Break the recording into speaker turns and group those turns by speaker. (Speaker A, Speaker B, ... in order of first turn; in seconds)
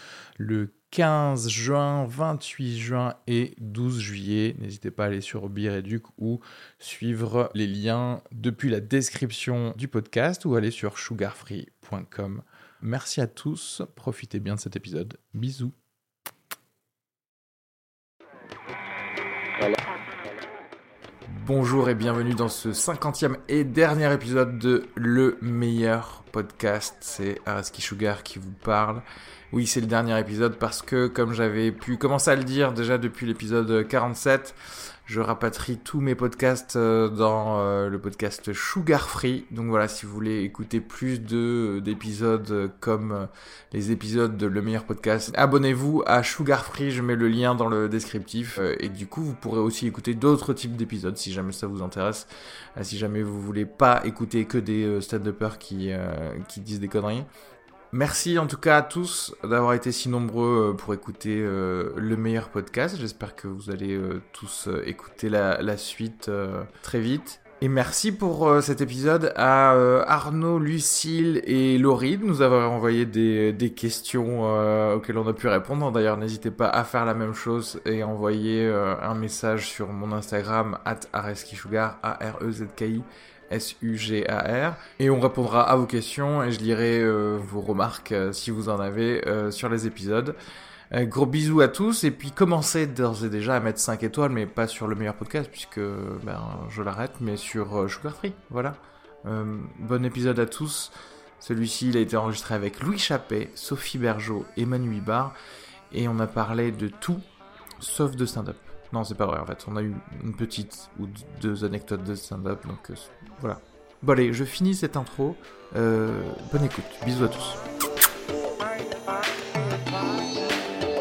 Speaker A: 0.4-15.7, 21.3-34.5, 35.1-57.3, 57.9-90.4, 90.9-105.3, 105.9-107.2, 107.8-117.6